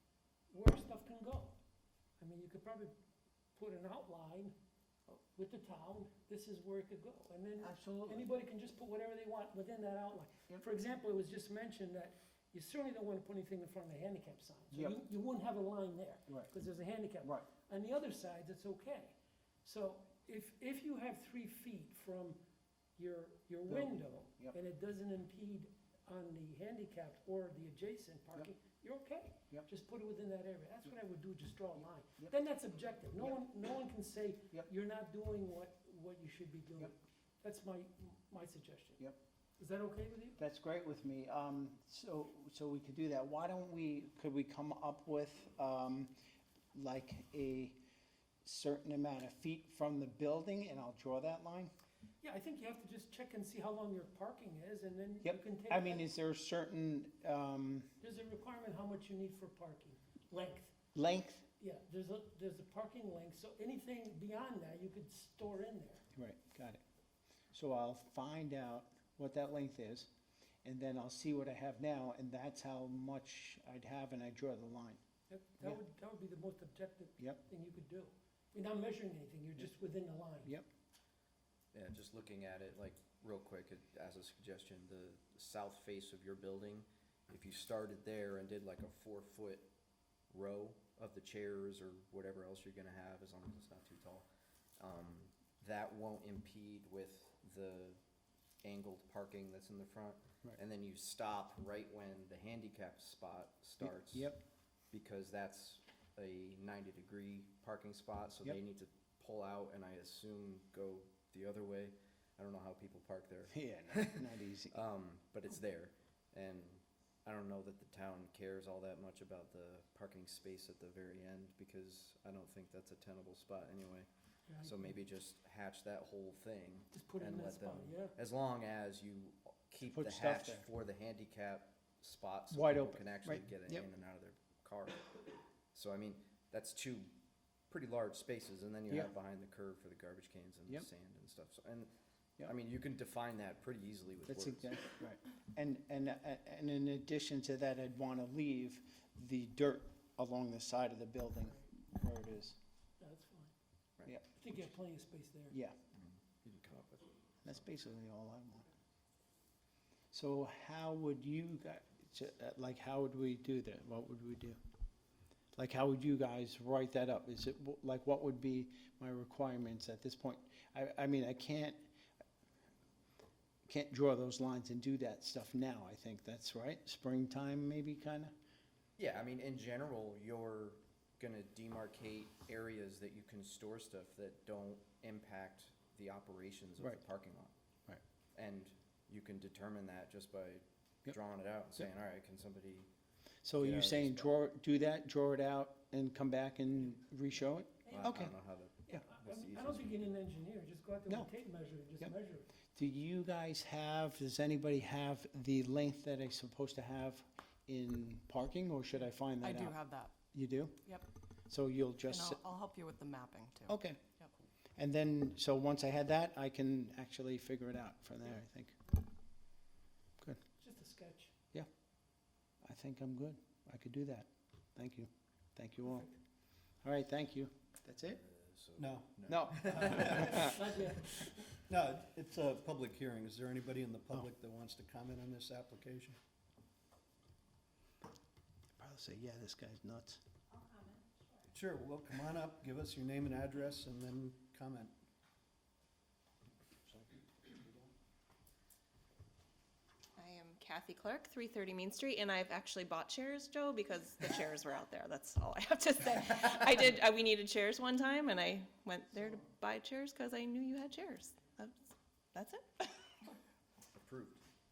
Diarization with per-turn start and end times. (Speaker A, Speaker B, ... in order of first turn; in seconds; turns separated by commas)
Speaker A: 0.5-1.6, Speaker A: 2.2-2.9, Speaker A: 3.5-4.5, Speaker A: 5.3-22.4, Speaker B: 7.6-8.3, Speaker B: 14.7-15.0, Speaker A: 23.0-39.0, Speaker B: 23.7-24.6, Speaker A: 39.6-40.4, Speaker B: 40.4-46.1, Speaker B: 46.7-47.8, Speaker B: 48.4-51.7, Speaker A: 52.2-56.0, Speaker B: 55.2-57.9, Speaker A: 58.0-60.7, Speaker B: 60.9-61.5, Speaker A: 61.6-66.0, Speaker B: 66.1-66.8, Speaker B: 67.5-70.1, Speaker B: 70.6-75.0, Speaker A: 75.3-80.6, Speaker C: 81.7-89.7, Speaker C: 90.3-94.3, Speaker C: 94.8-98.0, Speaker C: 98.6-104.3, Speaker B: 103.8-104.4, Speaker C: 104.9-124.1, Speaker B: 113.5-114.8, Speaker A: 124.5-124.9, Speaker C: 124.6-135.1, Speaker A: 126.9-128.1, Speaker B: 129.8-130.7, Speaker B: 132.5-133.8, Speaker C: 135.7-137.1, Speaker C: 137.7-144.9, Speaker B: 144.3-152.5, Speaker A: 153.0-153.5, Speaker B: 154.1-154.3, Speaker A: 154.3-155.5, Speaker B: 155.5-155.8, Speaker C: 155.9-157.5, Speaker B: 157.4-158.7, Speaker B: 160.1-164.6, Speaker B: 165.5-171.8, Speaker B: 173.7-178.3, Speaker C: 179.0-187.5, Speaker C: 188.3-192.9, Speaker B: 193.4-198.3, Speaker C: 193.6-194.4, Speaker A: 197.8-198.3, Speaker C: 197.9-200.2, Speaker A: 198.9-202.5, Speaker B: 202.7-209.8, Speaker D: 209.4-210.1, Speaker B: 210.3-210.8, Speaker B: 211.5-212.4, Speaker D: 212.1-214.3, Speaker B: 213.7-214.0, Speaker B: 214.8-218.8, Speaker A: 220.6-221.3, Speaker B: 222.6-226.1, Speaker B: 226.8-228.2, Speaker C: 228.0-230.6, Speaker E: 228.8-230.6, Speaker B: 229.3-230.8, Speaker A: 230.4-231.3, Speaker E: 231.7-236.2, Speaker B: 238.8-240.2, Speaker F: 240.5-241.0, Speaker E: 241.5-244.9, Speaker C: 246.9-247.7, Speaker F: 250.2-263.0, Speaker C: 263.9-264.4